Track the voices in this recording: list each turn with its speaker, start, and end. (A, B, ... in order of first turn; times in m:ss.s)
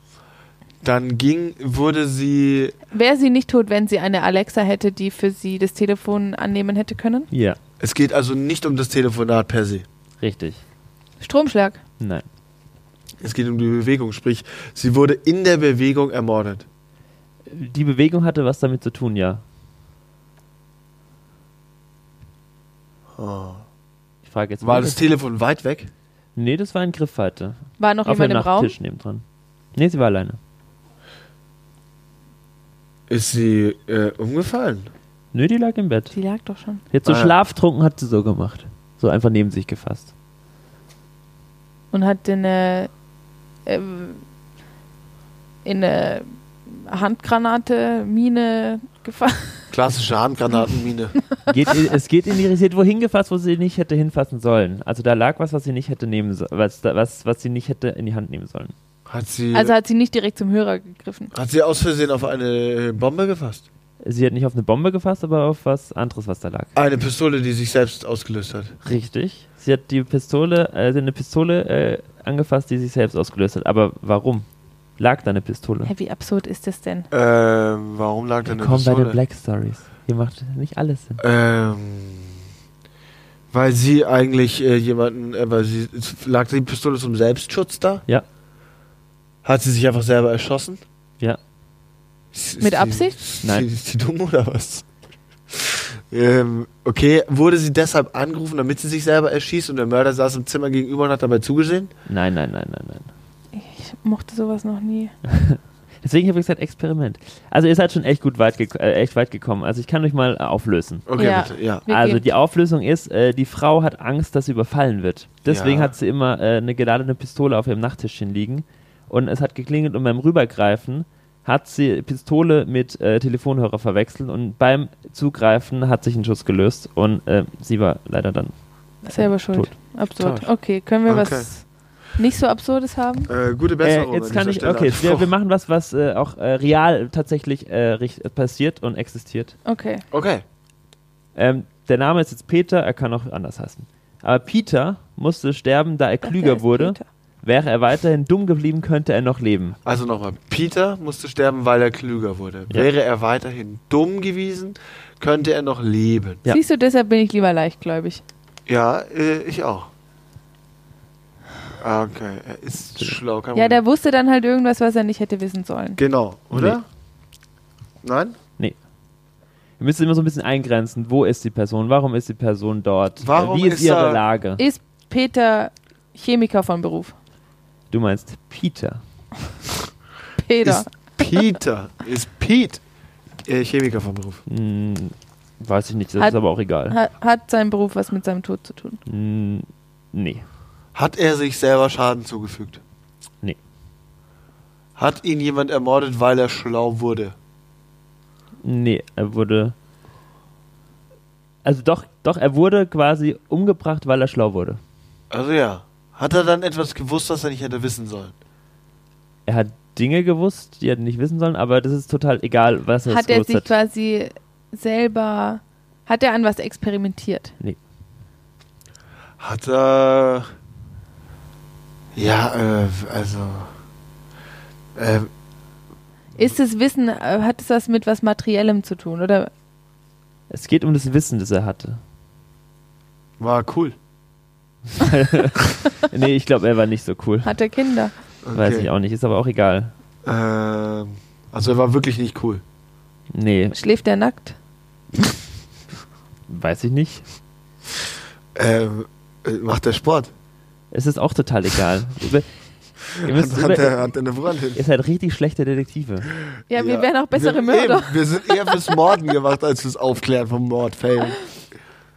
0:00.8-0:02.8 A
0:02.9-0:07.3 B
0:07.3-0:07.6 C
0:07.8-0:09.8 A
0:10.2-0:10.6 C
0:11.2-0:11.8 B
0:12.0-0:12.3 C
0:13.2-0:16.7 A
0:17.5-0:19.4 C
0:23.2-0:23.6 A
0:24.2-0:25.0 C
0:24.6-0:25.9 A
0:26.4-0:30.4 C
0:27.8-0:28.7 B
0:33.1-0:34.9 A
0:35.3-0:36.2 C
0:36.1-0:36.8 B
0:36.9-0:40.1 C
0:37.0-0:37.3 A
0:41.9-0:42.9 B
0:43.7-0:44.2 B
0:45.6-0:49.7 B
0:49.7-0:51.2 A
0:51.5-0:58.7 C
0:59.1-0:59.7 A
0:59.5-1:01.3 B
1:01.3-1:03.6 A
1:04.0-1:06.7 C
1:06.8-1:08.8 A
1:08.8-1:14.5 C
1:15.0-1:15.9 C
1:15.8-1:17.1 B
1:17.1-1:19.2 A
1:18.5-1:21.2 C
1:21.2-1:22.4 A
1:23.5-1:28.0 A
1:29.4-1:30.8 A
1:32.3-1:34.9 A
1:32.6-1:33.2 B
1:35.5-1:41.9 A
1:42.1-1:43.1 C
1:43.5-1:45.1 B
1:45.2-1:51.1 C
1:51.1-1:51.8 A
1:51.2-1:52.2 B
1:51.9-2:09.7 C
1:55.5-1:55.9 A
2:09.0-2:13.3 B
2:10.2-2:10.5 A
2:11.0-2:11.5 A
2:13.3-2:15.3 A
2:13.8-2:19.6 C
2:19.7-2:20.0 B
2:20.1-2:20.4 A
2:21.4-2:29.8 C
2:26.2-2:27.1 B
2:29.8-2:36.4 A
2:36.5-2:38.2 B
2:38.7-2:39.9 A
2:41.8-2:43.8 A
2:43.5-2:46.0 B
2:46.0-2:46.8 A
2:46.5-2:46.8 C
2:48.0-2:48.4 A
2:49.8-2:54.6 C
2:53.2-2:54.2 A
2:54.6-2:57.2 B
2:57.9-2:59.0 C
3:00.4-3:01.6 B
3:00.6-3:02.8 A
3:03.5-3:04.4 A
3:04.5-3:07.0 C
3:06.2-3:09.0 B
3:09.1-3:10.4 C
3:11.0-3:12.8 A
3:15.0-3:17.4 A
3:18.6-3:19.8 C
3:21.6-3:24.8 C
3:25.3-3:28.4 A
3:29.5-3:33.7 C
3:33.1-3:37.5 B
3:39.4-3:40.5 A
3:42.2-3:43.7 A
3:45.0-3:45.3 A
3:46.4-3:49.5 B
3:50.5-3:52.0 C
3:53.4-3:54.0 A
3:54.9-3:57.6 C
3:57.4-3:58.1 B
3:58.4-3:58.9 A
3:58.6-3:59.9 C
4:00.2-4:02.6 A
4:03.3-4:03.8 C
4:03.7-4:04.6 B
4:06.5-4:07.2 C
4:08.6-4:10.3 A
4:10.9-4:12.5 C
4:13.1-4:14.8 A
4:13.2-4:14.0 C
4:14.7-4:16.3 C
4:16.7-4:19.0 B
4:16.7-4:21.4 A